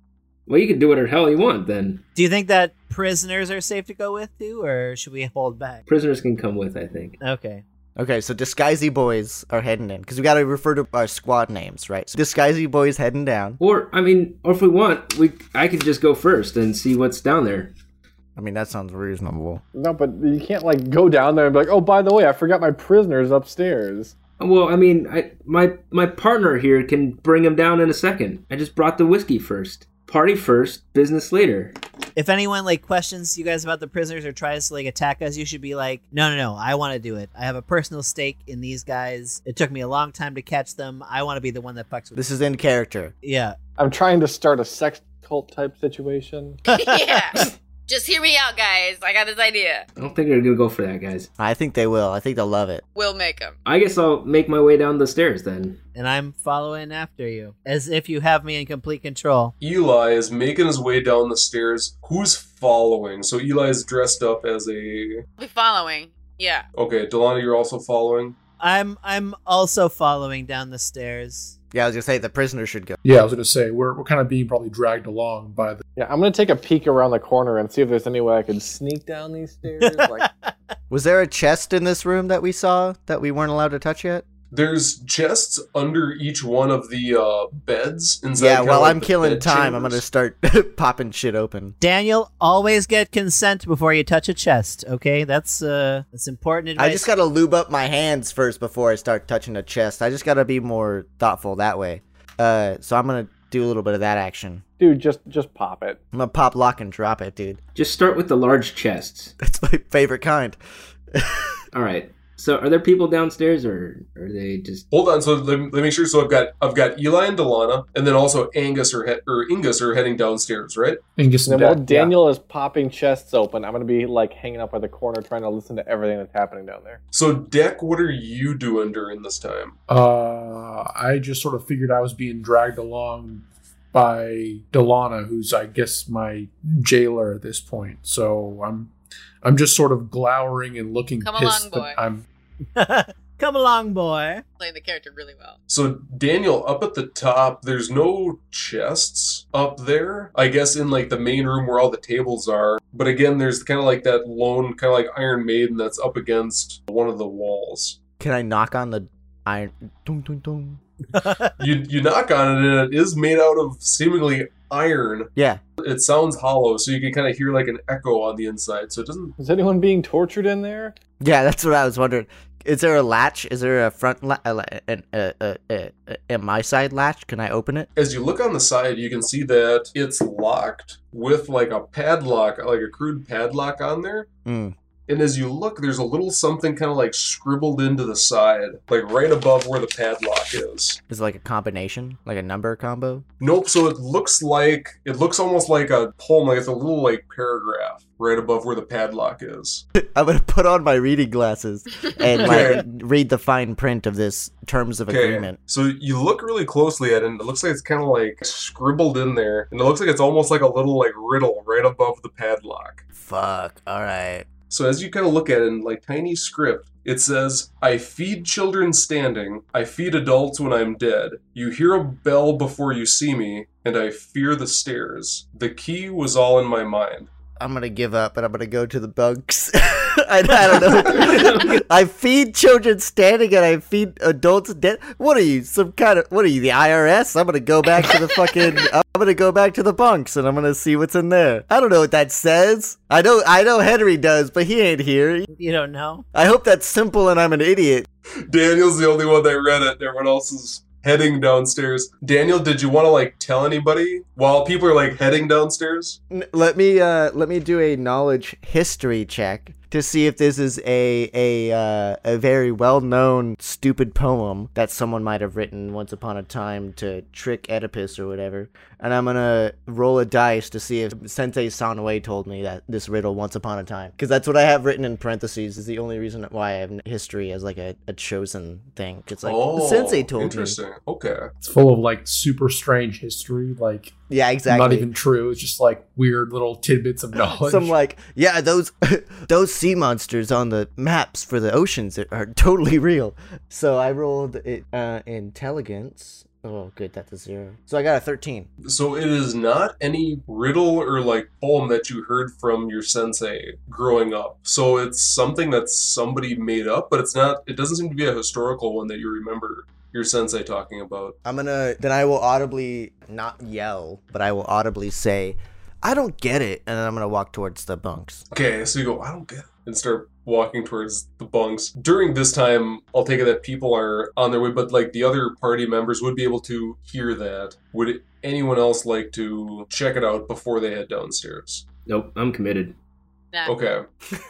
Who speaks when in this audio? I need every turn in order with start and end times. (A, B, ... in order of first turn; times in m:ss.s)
0:00.5-0:02.0 A
0:02.1-0:05.8 B
0:05.9-0:07.2 A
0:07.2-0:07.6 B
0:08.0-0:13.6 C
0:13.6-0:17.7 A
0:18.4-0:19.6 C
0:19.7-0:24.1 D
0:24.4-0:31.7 A
0:32.2-0:42.2 B
0:42.1-0:43.1 C
0:43.2-0:43.6 B
0:43.8-0:46.6 D
0:46.7-0:49.8 E
0:46.7-0:47.1 B
0:50.0-0:51.3 A
0:51.4-0:52.8 C
0:52.9-0:53.6 E
0:53.6-0:55.8 A
0:55.9-0:59.5 B
0:59.6-1:05.2 F
1:05.4-1:06.6 E
1:06.8-1:08.4 F
1:08.6-1:11.5 B
1:11.7-1:13.0 C
1:13.0-1:15.8 G
1:16.0-1:20.3 D
1:19.8-1:20.5 B
1:20.9-1:24.2 C
1:24.5-1:30.0 F
1:28.4-1:31.8 C
1:31.8-1:37.1 B
1:36.8-1:44.6 C
1:44.8-1:46.0 D
1:46.1-1:47.6 C
1:47.7-1:49.3 A
1:49.4-1:50.6 C
1:51.1-1:51.6 C
1:51.7-1:54.8 A
1:54.9-2:01.0 F
2:01.2-2:02.1 G
2:01.4-2:07.0 D
2:07.1-2:09.7 F
2:09.9-2:22.2 G
2:21.2-2:22.0 E
2:22.8-2:24.4 B
2:24.6-2:25.6 E
2:25.7-2:38.0 F
2:38.2-2:40.8 C
2:41.6-2:49.3 F
2:45.3-2:45.6 C
2:49.4-2:51.0 D
2:51.2-2:57.9 C
2:58.0-3:04.3 F
3:04.4-3:04.7 C
3:05.1-3:11.0 F
3:11.1-3:13.2 C
3:13.4-3:19.8 F
3:20.0-3:25.6 C
3:22.4-3:22.8 F
3:25.1-3:33.0 F
3:33.1-3:34.5 C
3:34.7-3:47.3 F
3:47.6-4:05.5 C
3:51.0-3:51.7 A
4:05.5-4:06.2 B
4:06.3-4:08.1 C
4:08.5-4:16.2 F
4:16.3-4:40.8 C
4:39.4-4:41.5 F
4:41.6-4:44.2 G
4:44.3-4:45.1 C
4:44.7-4:47.9 G
4:47.5-4:58.7 C
4:58.8-5:11.4 F
5:11.4-5:18.4 C
5:18.5-5:31.8 F
5:32.0-5:32.9 A
5:33.6-5:34.0 F